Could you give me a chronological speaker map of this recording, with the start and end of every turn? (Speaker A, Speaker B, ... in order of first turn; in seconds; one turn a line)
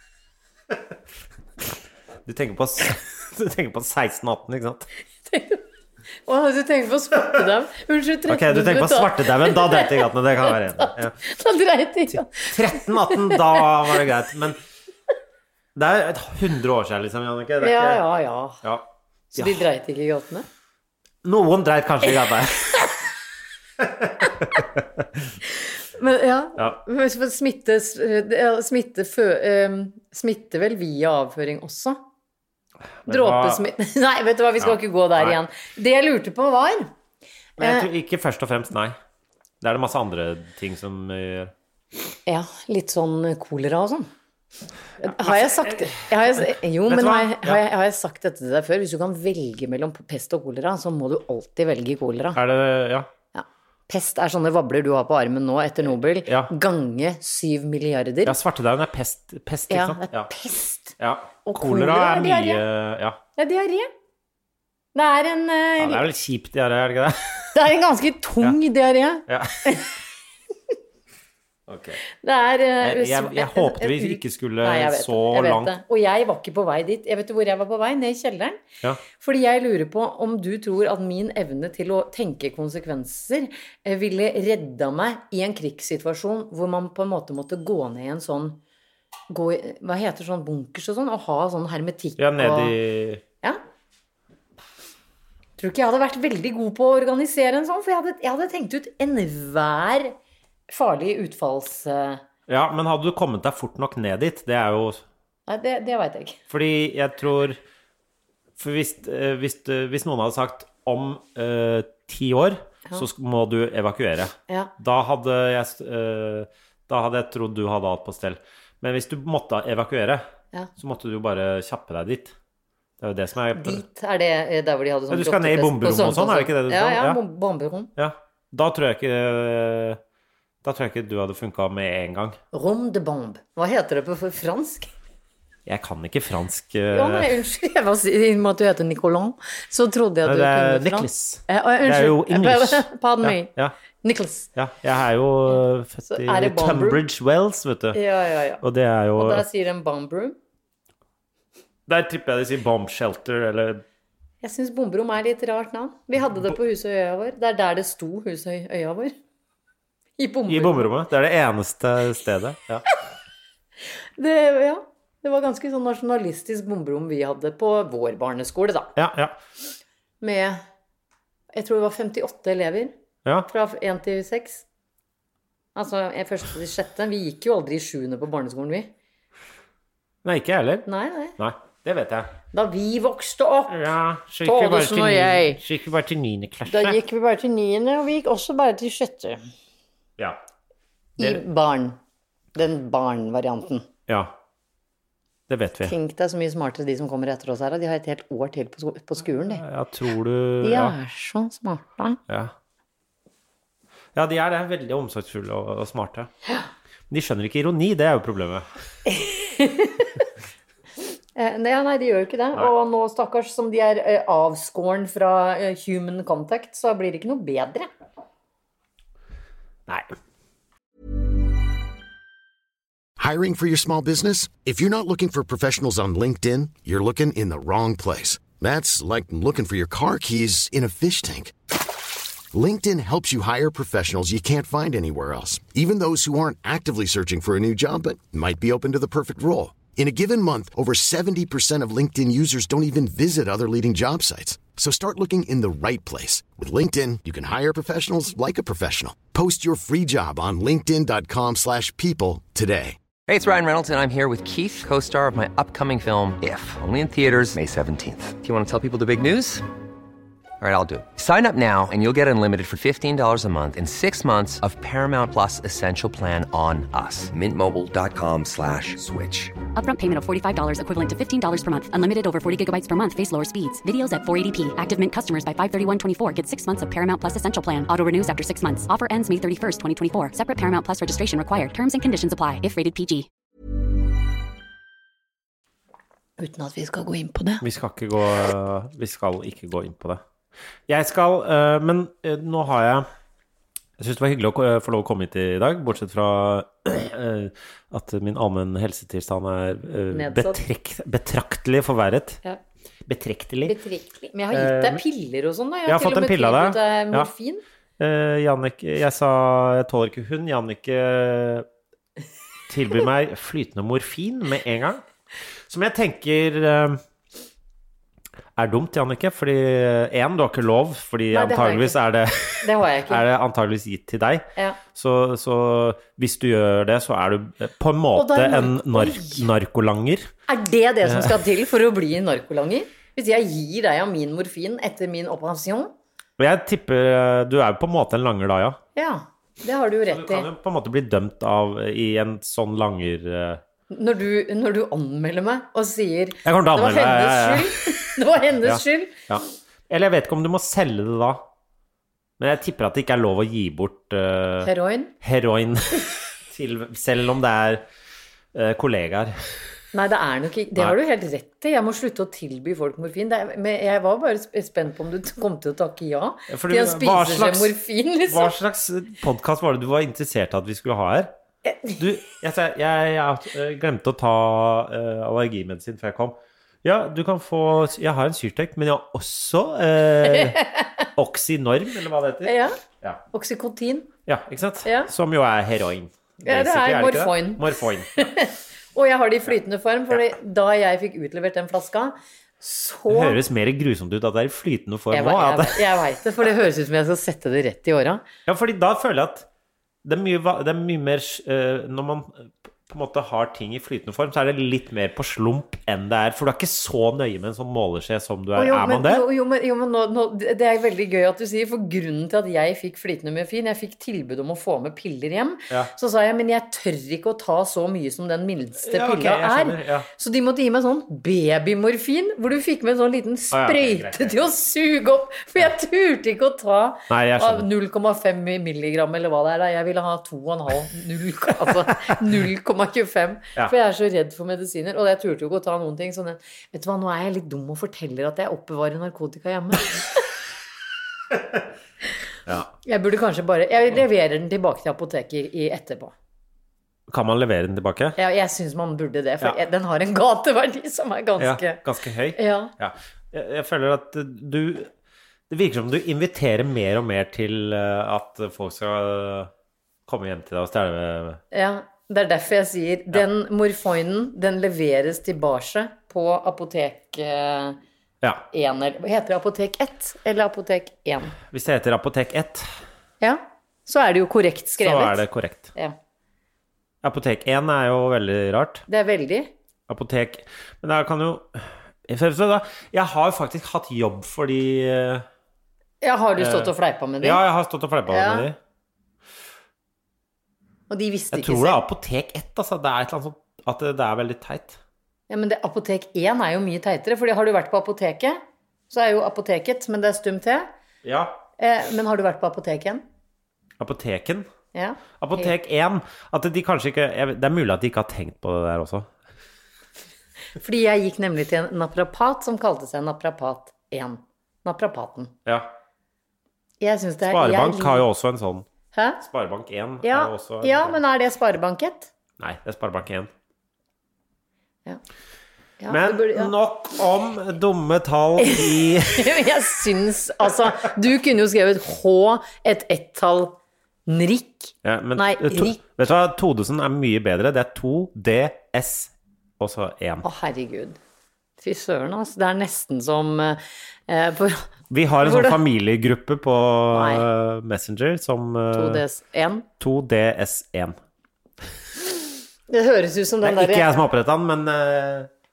Speaker A: 2.2-4.9
Speaker B: 5.3-5.6
Speaker B: 6.2-14.0
Speaker A: 8.3-11.2
Speaker A: 12.4-14.6
Speaker A: 15.7-18.0
Speaker B: 17.6-18.6
Speaker A: 18.6-19.6
Speaker B: 19.3-20.4
Speaker A: 21.2-22.9
Speaker A: 23.8-25.2
Speaker B: 25.9-32.0
Speaker A: 33.0-33.6
Speaker B: 33.1-36.9
Speaker A: 34.6-35.4
Speaker A: 37.6-38.9
Speaker B: 37.6-37.9
Speaker A: 39.6-41.5
Speaker B: 42.2-44.1
Speaker A: 45.0-47.6
Speaker B: 45.0-52.4
Speaker A: 52.3-53.1
Speaker B: 53.3-58.4
Speaker A: 56.2-56.5
Speaker A: 58.2-60.3
Speaker B: 59.7-60.9
Speaker A: 61.0-63.2
Speaker B: 61.4-62.6
Speaker B: 63.4-63.9
Speaker B: 64.9-66.0
Speaker A: 65.8-67.5
Speaker B: 67.5-69.9
Speaker A: 69.3-69.8
Speaker A: 71.7-72.0
Speaker B: 72.2-88.6
Speaker A: 72.8-75.7
Speaker B: 89.3-92.7
Speaker A: 92.2-93.2
Speaker B: 95.6-100.1
Speaker B: 100.7-102.2
Speaker A: 102.5-105.0
Speaker B: 105.5-106.4
Speaker A: 106.5-107.6
Speaker A: 108.6-120.2
Speaker A: 120.8-122.3
Speaker A: 123.0-123.8
Speaker B: 123.5-127.9
Speaker A: 125.1-127.2
Speaker A: 128.0-130.0
Speaker A: 130.6-132.4
Speaker B: 132.5-134.9
Speaker A: 135.7-137.3
Speaker B: 136.9-143.5
Speaker A: 140.2-143.7
Speaker B: 144.0-144.5
Speaker A: 144.6-148.0
Speaker B: 146.1-147.0
Speaker B: 147.9-148.6
Speaker A: 148.6-149.4
Speaker B: 149.2-150.4
Speaker A: 151.9-153.8
Speaker B: 154.4-159.1
Speaker B: 160.2-160.8
Speaker A: 160.5-162.9
Speaker B: 164.2-168.9
Speaker A: 168.9-169.4
Speaker B: 170.2-170.6
Speaker B: 171.5-172.9
Speaker B: 173.5-174.6
Speaker B: 175.7-178.9
Speaker A: 180.2-180.8
Speaker B: 180.8-181.3
Speaker A: 181.4-182.3
Speaker B: 182.5-183.8
Speaker A: 183.7-187.0
Speaker B: 184.4-185.6
Speaker B: 186.7-189.4
Speaker B: 191.2-192.0
Speaker B: 192.5-193.9
Speaker A: 194.1-194.3
Speaker A: 195.5-195.9
Speaker B: 195.8-199.6
Speaker A: 199.5-200.9
Speaker B: 200.6-202.2
Speaker A: 204.1-206.3
Speaker A: 207.1-208.7
Speaker B: 209.1-210.1
Speaker B: 211.3-217.9
Speaker C: 223.2-231.5
Speaker C: 232.5-253.0
Speaker D: 253.3-259.6
Speaker D: 260.6-269.6
Speaker E: 269.7-283.3
Speaker B: 286.4-287.6
Speaker A: 287.6-290.2
Speaker A: 290.9-293.1
Speaker A: 294.0-302.4
Speaker B: 300.1-300.6
Speaker A: 303.1-303.8
Speaker B: 303.6-307.6
Speaker A: 304.5-305.0
Speaker A: 305.9-307.3
Speaker A: 308.0-311.6
Speaker A: 312.7-315.0
Speaker A: 315.7-317.0
Speaker A: 318.6-330.3
Speaker B: 321.3-322.0
Speaker B: 322.6-323.2
Speaker B: 328.1-329.5
Speaker B: 330.5-335.9
Speaker A: 331.0-331.3
Speaker A: 336.4-338.8
Speaker B: 338.9-340.5
Speaker A: 340.1-343.6
Speaker B: 343.9-349.2
Speaker A: 346.4-348.1
Speaker A: 348.6-351.4
Speaker A: 352.4-354.7
Speaker B: 354.6-355.1
Speaker A: 355.2-357.8
Speaker A: 358.5-359.4
Speaker B: 359.9-368.5
Speaker A: 366.5-367.8
Speaker A: 368.3-371.3
Speaker B: 371.6-372.0
Speaker A: 372.0-383.2
Speaker B: 380.3-380.9
Speaker B: 382.4-382.8
Speaker B: 383.3-384.1
Speaker A: 384.2-388.3
Speaker B: 384.8-385.1
Speaker B: 386.4-387.6
Speaker B: 388.2-393.4
Speaker A: 393.1-395.9
Speaker B: 395.1-398.2
Speaker A: 398.5-399.5
Speaker A: 400.0-409.2
Speaker B: 408.6-440.2
Speaker A: 418.8-420.1
Speaker A: 423.5-424.5
Speaker A: 427.1-427.7
Speaker B: 442.8-446.1
Speaker A: 447.1-448.2
Speaker B: 448.2-451.8
Speaker A: 451.4-454.9
Speaker B: 452.4-452.7
Speaker A: 455.5-459.5
Speaker A: 460.1-461.4
Speaker B: 461.5-467.8
Speaker B: 468.5-471.4
Speaker A: 471.5-472.7
Speaker B: 473.2-475.2
Speaker A: 474.8-475.7
Speaker A: 477.0-478.8
Speaker B: 478.9-479.5
Speaker A: 479.9-485.2
Speaker B: 486.0-487.4
Speaker A: 486.4-488.6
Speaker B: 488.1-488.5
Speaker B: 490.9-491.8
Speaker A: 491.3-494.8
Speaker B: 495.3-500.7
Speaker A: 501.0-501.4
Speaker B: 501.6-503.0
Speaker A: 503.8-504.5
Speaker B: 504.7-505.5
Speaker A: 505.2-509.1
Speaker B: 510.6-515.3
Speaker A: 515.5-515.7
Speaker B: 516.8-518.0
Speaker A: 517.3-518.6
Speaker B: 518.9-519.2
Speaker A: 519.2-521.0
Speaker B: 520.0-522.1
Speaker A: 522.4-523.3
Speaker B: 525.8-526.5
Speaker A: 525.9-529.3
Speaker B: 528.4-535.8
Speaker A: 534.8-540.2
Speaker B: 540.2-541.0
Speaker B: 541.6-544.7
Speaker A: 544.9-549.0
Speaker B: 545.2-545.6
Speaker B: 546.9-547.3
Speaker B: 548.7-549.6
Speaker A: 549.8-551.0
Speaker B: 552.7-553.9
Speaker A: 553.4-555.3